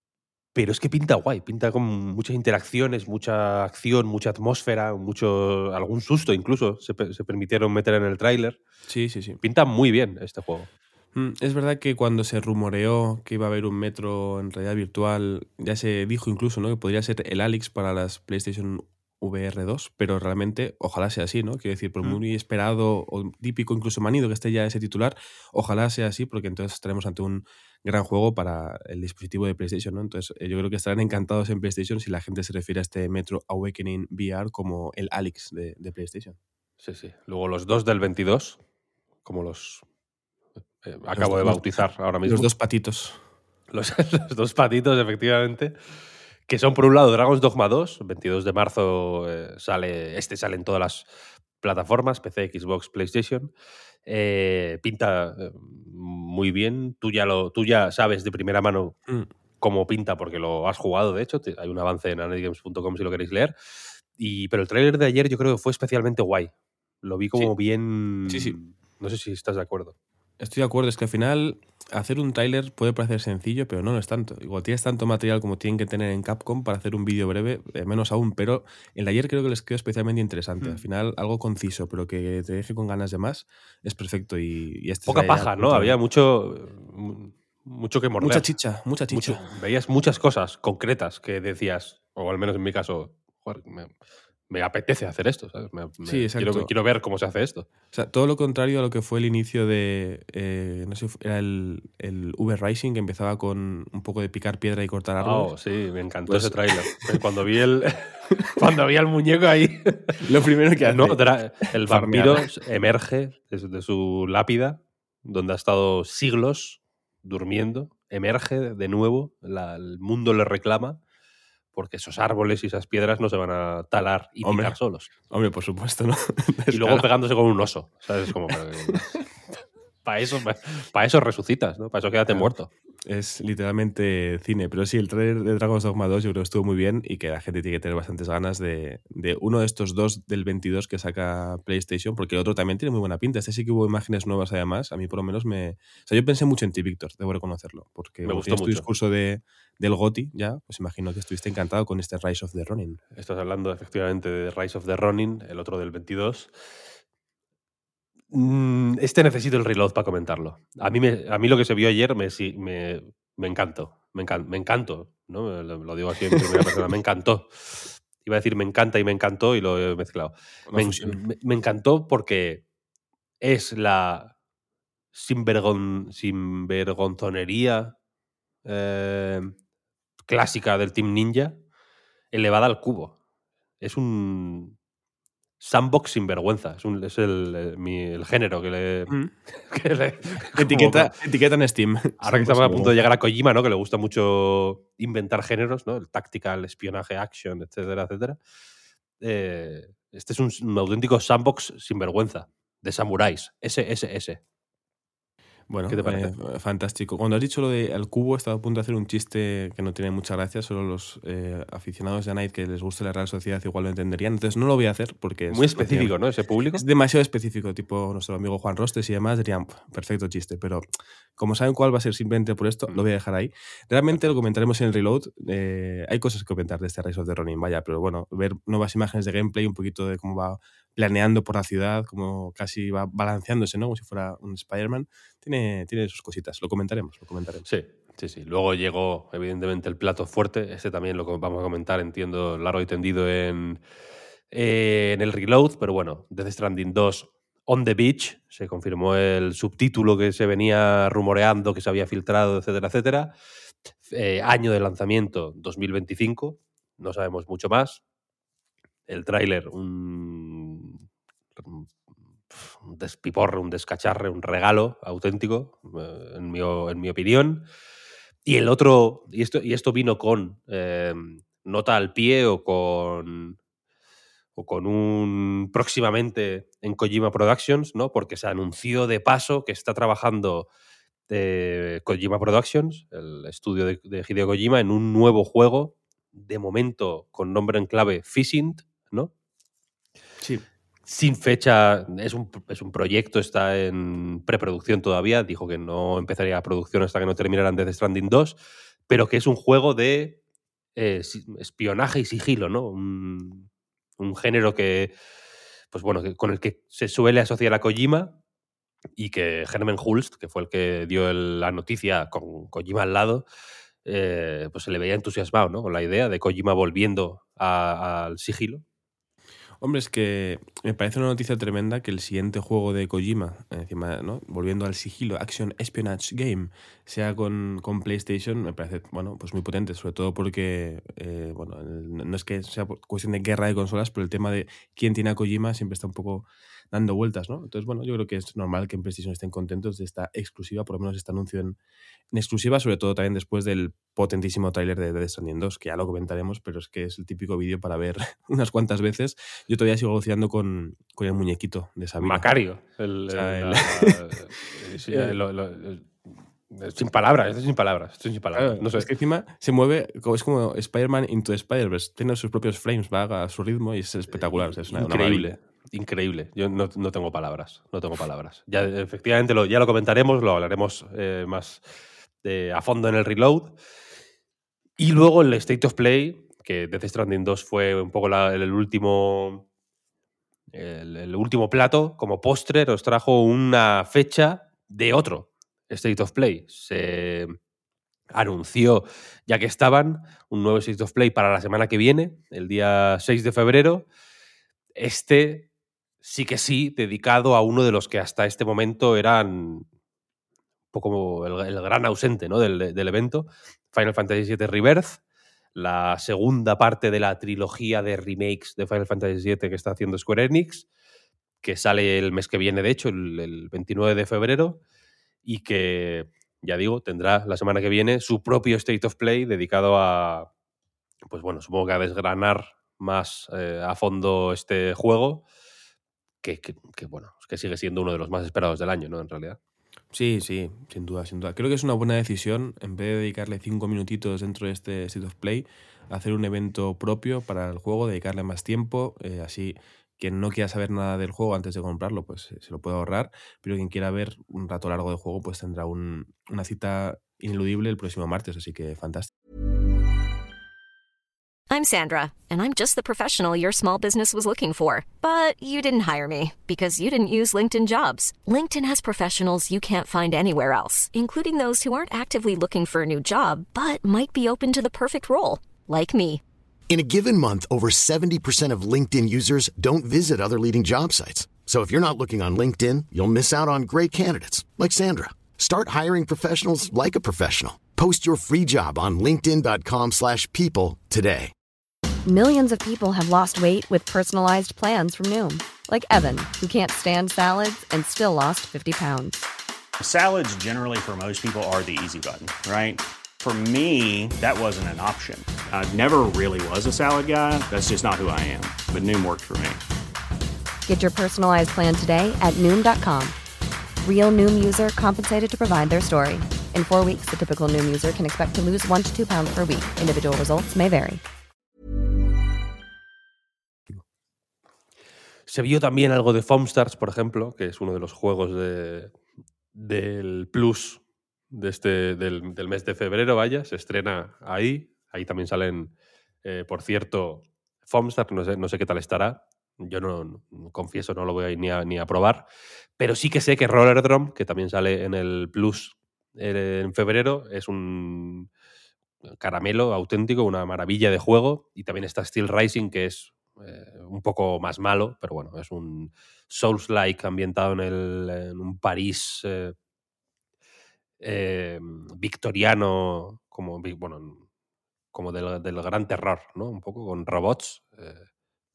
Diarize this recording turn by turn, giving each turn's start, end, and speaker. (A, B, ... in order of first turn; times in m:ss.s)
0:00.5-0:08.6 A
0:08.9-0:09.4 B
0:09.4-0:10.7 A
0:11.1-0:36.4 B
0:36.8-0:38.6 A
0:39.2-0:39.8 A
0:40.8-0:42.5 A
0:41.1-0:43.2 B
0:43.7-0:45.7 A
0:46.5-0:51.0 A
0:51.6-0:53.5 A
0:54.0-0:59.0 A
0:59.6-1:03.5 A
1:04.1-1:10.0 A
1:08.3-1:08.6 B
1:10.4-1:26.0 B
1:25.0-1:28.5 A
1:28.2-1:29.5 B
1:29.1-1:33.9 A
1:34.5-1:37.7 A
1:36.0-1:36.7 B
1:37.9-1:45.5 B
1:45.2-1:50.2 A
1:46.3-1:47.1 B
1:50.2-1:52.4 B
1:50.8-2:01.0 A
2:01.7-2:05.1 A
2:04.4-2:07.1 B
2:06.7-2:09.2 A
2:10.0-2:12.7 A
2:13.0-2:33.0 B
2:28.2-2:28.9 A
2:33.1-2:36.5 A
2:38.3-2:52.6 A
2:50.7-2:51.2 B
2:53.4-2:54.3 A
2:55.1-2:57.9 A
2:58.6-2:59.5 A
3:00.3-3:01.6 A
3:02.3-3:03.2 A
3:03.8-3:04.8 A
3:05.6-3:11.1 A
3:10.5-3:13.0 B
3:12.2-3:18.4 A
3:19.2-3:24.4 A
3:25.7-3:36.1 B
3:25.9-3:26.3 A
3:35.5-3:36.8 A
3:36.7-3:57.7 B
3:57.6-4:03.8 A
4:04.5-4:13.3 A
4:14.0-4:18.0 A
4:19.1-4:21.0 A
4:21.6-4:21.9 A
4:22.5-4:27.7 A
4:28.4-4:33.6 A
4:34.6-4:40.7 A
4:41.3-4:49.3 A
4:51.0-5:00.4 A
5:01.0-5:03.7 A
5:04.2-5:05.1 A
5:05.9-5:08.4 A
5:09.2-5:13.4 A
5:14.0-5:18.8 A
5:19.8-5:41.8 B
5:42.3-5:52.5 B
5:52.2-5:59.1 A
5:53.3-5:54.2 B
5:55.1-5:55.4 B
5:58.5-6:05.5 B
6:04.3-6:11.8 A
6:12.4-6:13.8 A
6:15.0-6:19.6 A
6:20.7-6:27.6 A
6:28.3-6:34.0 A
6:35.0-6:35.7 A
6:36.2-6:39.9 A
6:40.9-6:45.2 A
6:45.7-6:50.8 A
6:51.6-6:54.8 A
6:55.4-7:00.5 A
7:01.3-7:05.4 A
7:06.4-7:09.6 A
7:10.1-7:29.3 B
7:31.7-7:46.4 C
7:46.9-8:01.5 D
8:02.2-8:09.5 E
8:10.0-8:19.8 F
8:20.9-8:23.4 E
8:24.0-8:31.2 E
8:35.5-8:39.1 A
8:39.7-8:45.9 A
8:46.4-8:58.5 A
8:59.4-9:09.7 A
9:11.2-9:14.4 A
9:15.1-9:18.3 A